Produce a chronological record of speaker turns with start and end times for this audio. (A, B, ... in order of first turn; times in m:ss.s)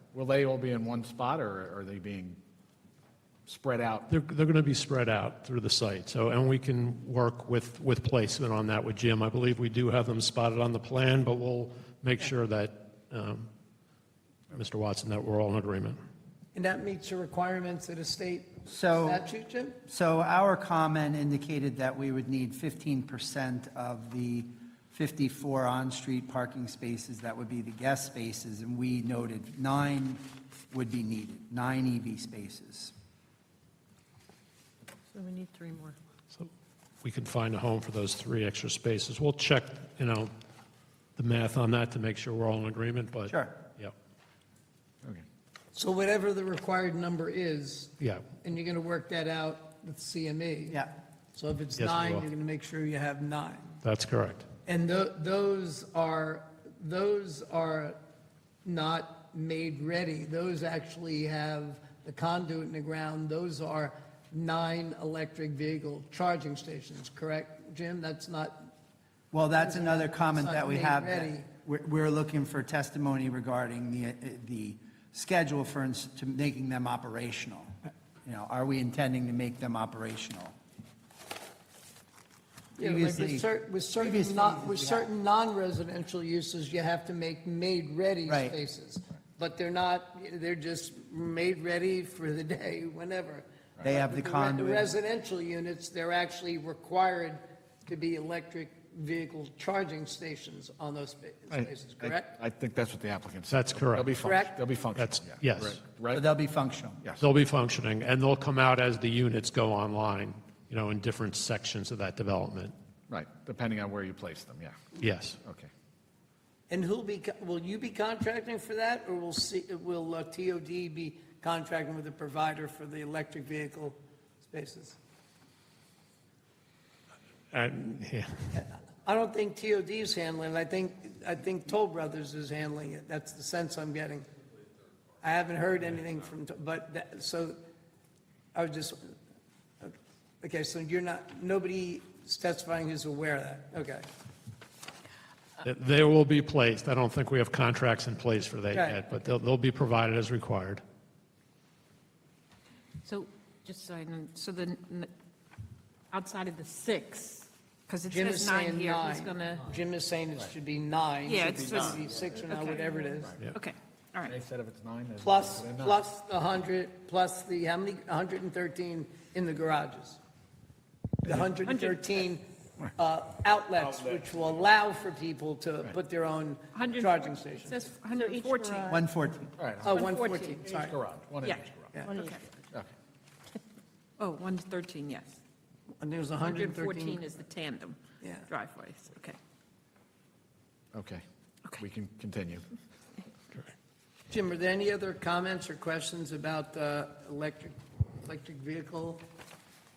0:00.1-0:02.4 A
0:03.5-0:04.1 A
0:04.1-0:13.5 B
0:14.5-0:16.0 B
0:16.6-0:19.8 C
0:18.7-0:19.2 D
0:19.9-0:32.9 D
0:35.1-0:36.0 E
0:37.0-0:40.3 B
0:41.2-0:43.9 B
0:43.3-0:43.6 D
0:45.7-0:50.8 C
0:48.0-0:48.3 B
0:51.4-0:53.8 C
0:51.8-0:52.3 B
0:53.8-0:54.5 B
0:54.7-0:58.0 C
0:58.6-1:08.6 C
1:09.3-1:17.7 D
1:09.5-1:11.5 C
1:18.2-1:20.6 D
1:22.8-1:25.1 D
1:22.8-1:42.4 C
1:28.3-1:28.6 D
1:33.8-1:34.9 D
1:41.5-1:46.2 A
1:43.5-1:44.2 B
1:44.2-1:44.6 C
1:45.0-1:45.8 B
1:46.1-1:47.0 D
1:47.2-1:52.7 B
1:53.1-1:54.8 A
1:55.0-1:55.4 B
1:55.4-1:55.7 A
1:56.7-2:05.0 C
2:07.5-2:08.6 B
2:08.5-2:14.3 C
2:15.2-2:17.6 C
2:18.5-2:19.2 C
2:19.8-2:24.0 C
2:25.6-2:30.8 B
2:28.7-2:29.0 C
2:33.0-2:35.1 E
2:36.1-2:39.7 E
2:38.1-2:43.4 C
2:41.2-2:44.4 E
2:41.7-2:42.3 A
2:44.2-2:46.0 A
2:45.2-2:50.2 C
2:51.2-2:52.4 C
2:51.7-2:51.9 E
2:53.0-2:58.9 C
2:56.7-2:59.0 E
2:58.9-2:59.6 D
2:59.6-3:02.1 A
2:59.8-3:01.0 C
2:59.9-3:00.6 E
3:01.4-3:02.4 E
3:04.2-3:05.4 E
3:06.0-3:07.2 C
3:06.4-3:09.4 E
3:08.2-3:08.5 C
3:10.9-3:11.2 A
3:11.8-3:12.7 A
3:14.3-3:19.2 C